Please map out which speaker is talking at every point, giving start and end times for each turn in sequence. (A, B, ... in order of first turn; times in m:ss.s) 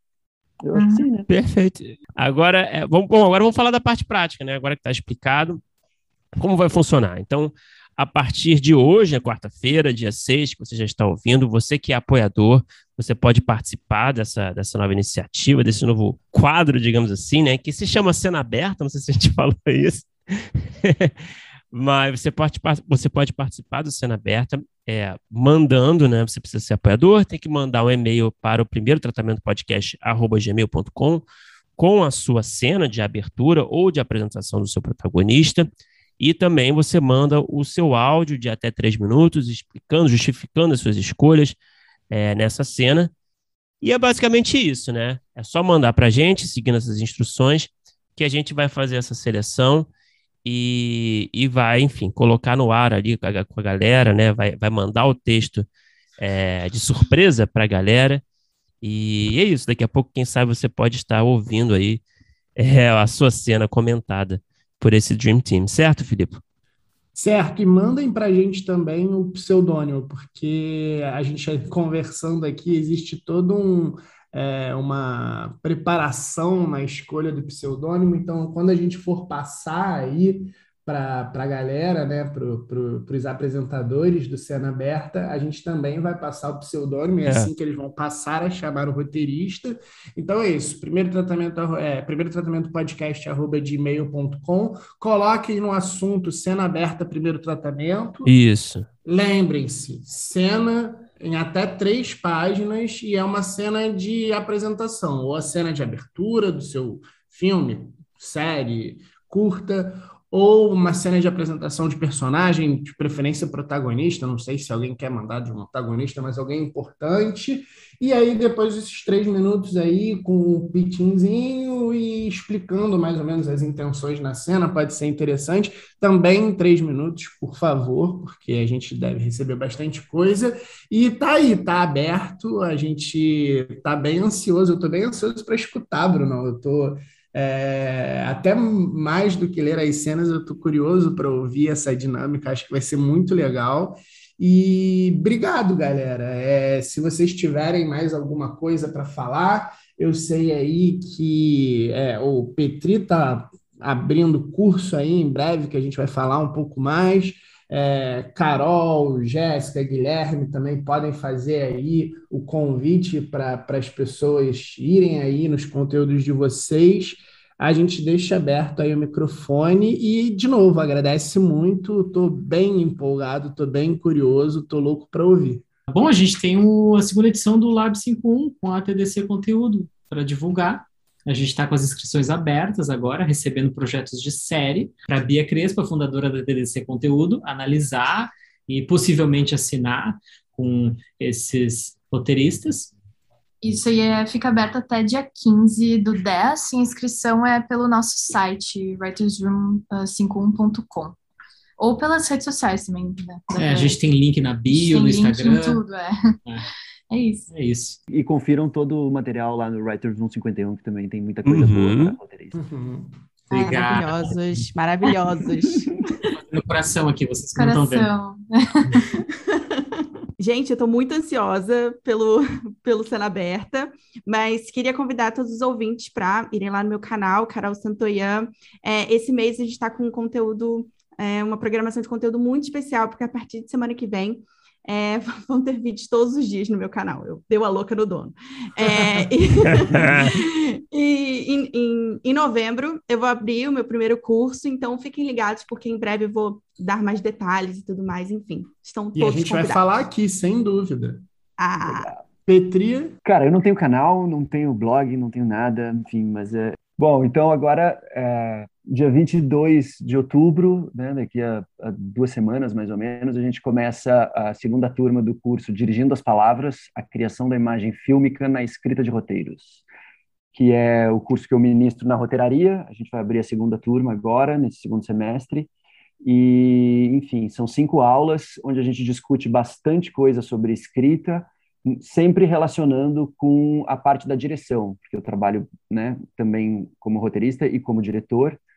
0:00.6-0:01.3 A
0:01.3-0:05.6 B
0:06.4-0:21.2 B
0:21.7-0:31.2 B
0:31.8-0:35.7 B
0:36.2-0:41.6 B
0:42.1-0:43.1 B
0:43.8-0:49.9 B
0:50.4-0:55.7 B
0:56.2-0:58.2 B
0:58.8-1:02.0 B
1:02.6-1:06.4 B
1:07.1-1:38.3 C
1:27.2-1:27.5 B
1:38.2-1:38.8 B
1:39.0-2:55.6 C
2:55.9-3:12.9 D
3:13.6-3:21.2 E
3:21.8-3:24.0 E
3:23.5-3:25.8 D
3:24.7-3:26.2 E
3:27.1-3:27.4 E
3:27.5-3:28.0 D
3:28.1-3:32.6 A
3:31.4-3:32.2 B
3:32.5-3:33.1 C
3:33.5-3:34.7 D
3:33.5-3:36.1 F
3:36.3-3:38.1 D
3:37.6-3:39.0 E
3:40.4-4:09.9 F
3:59.9-4:00.3 B
4:09.2-4:11.2 C
4:11.6-4:12.1 F
4:11.9-4:12.2 A
4:12.4-4:13.2 C
4:13.2-4:29.8 A
4:30.5-4:35.7 A
4:36.2-4:48.6 A